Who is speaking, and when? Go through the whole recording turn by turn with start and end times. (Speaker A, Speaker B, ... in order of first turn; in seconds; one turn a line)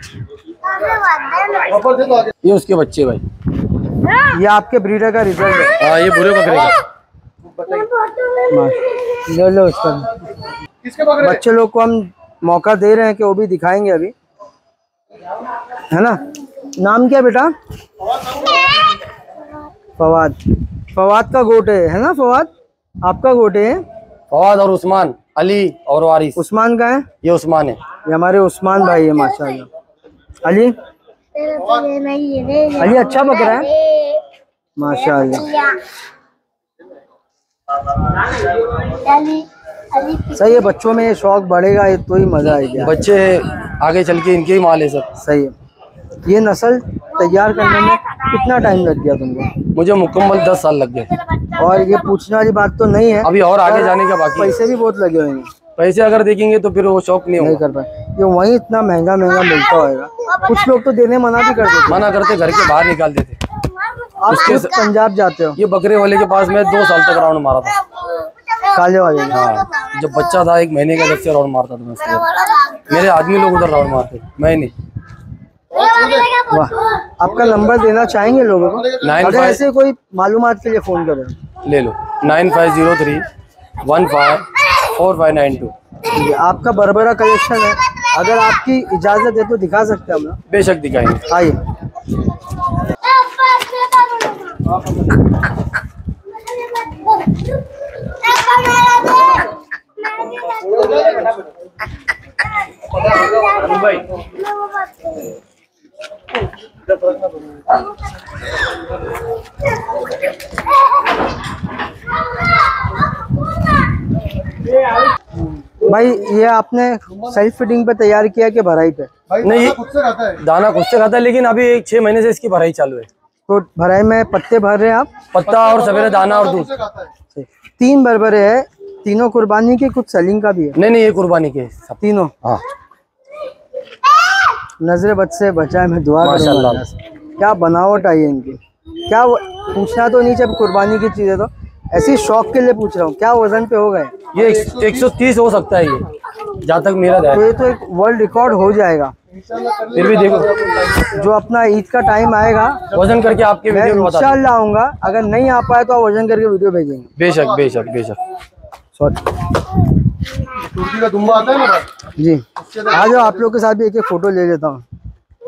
Speaker A: 0.7-2.1
Speaker B: 2.4-3.2
Speaker C: 4.3-5.8
Speaker B: 5.8-6.8
Speaker A: 7.7-8.3
Speaker C: 8.5-10.1
Speaker C: 11.0-14.1
Speaker C: 15.9-17.5
Speaker C: 20.0-20.4
Speaker C: 20.9-22.5
Speaker C: 23.0-23.8
Speaker B: 24.3-26.4
Speaker C: 26.4-27.1
Speaker B: 27.2-27.8
Speaker C: 28.1-29.7
Speaker C: 30.4-30.7
Speaker A: 31.4-32.8
Speaker C: 32.7-33.8
Speaker A: 33.7-34.2
Speaker C: 34.8-35.6
Speaker A: 38.9-40.3
Speaker C: 40.3-42.9
Speaker B: 42.6-45.1
Speaker C: 45.2-45.5
Speaker C: 46.3-49.5
Speaker B: 49.7-51.1
Speaker C: 51.5-55.5
Speaker B: 53.2-54.6
Speaker B: 55.8-57.6
Speaker C: 57.4-62.1
Speaker B: 61.9-63.4
Speaker C: 64.2-65.6
Speaker B: 64.3-64.8
Speaker B: 65.6-67.8
Speaker C: 68.7-69.5
Speaker B: 69.3-74.7
Speaker A: 75.8-76.4
Speaker C: 76.3-81.3
Speaker B: 79.0-79.6
Speaker B: 81.6-83.3
Speaker B: 83.8-85.7
Speaker C: 86.1-90.4
Speaker B: 90.5-91.2
Speaker C: 91.3-91.6
Speaker A: 93.1-94.7
Speaker A: 96.8-97.1
Speaker A: 98.3-99.4
Speaker A: 100.5-101.3
Speaker A: 103.3-103.8
Speaker A: 104.5-105.1
Speaker C: 115.8-119.1
Speaker B: 119.4-123.1
Speaker C: 123.5-125.1
Speaker B: 125.3-126.9
Speaker C: 127.3-130.8
Speaker B: 130.8-132.6
Speaker C: 132.0-132.3
Speaker C: 134.8-144.1
Speaker B: 136.2-136.8
Speaker B: 144.3-147.5
Speaker C: 147.3-149.1
Speaker B: 149.8-150.7
Speaker C: 150.9-152.8
Speaker B: 152.9-154.4
Speaker C: 153.7-157.1
Speaker B: 157.2-158.2
Speaker C: 159.0-159.2
Speaker A: 161.0-161.6
Speaker C: 162.2-164.8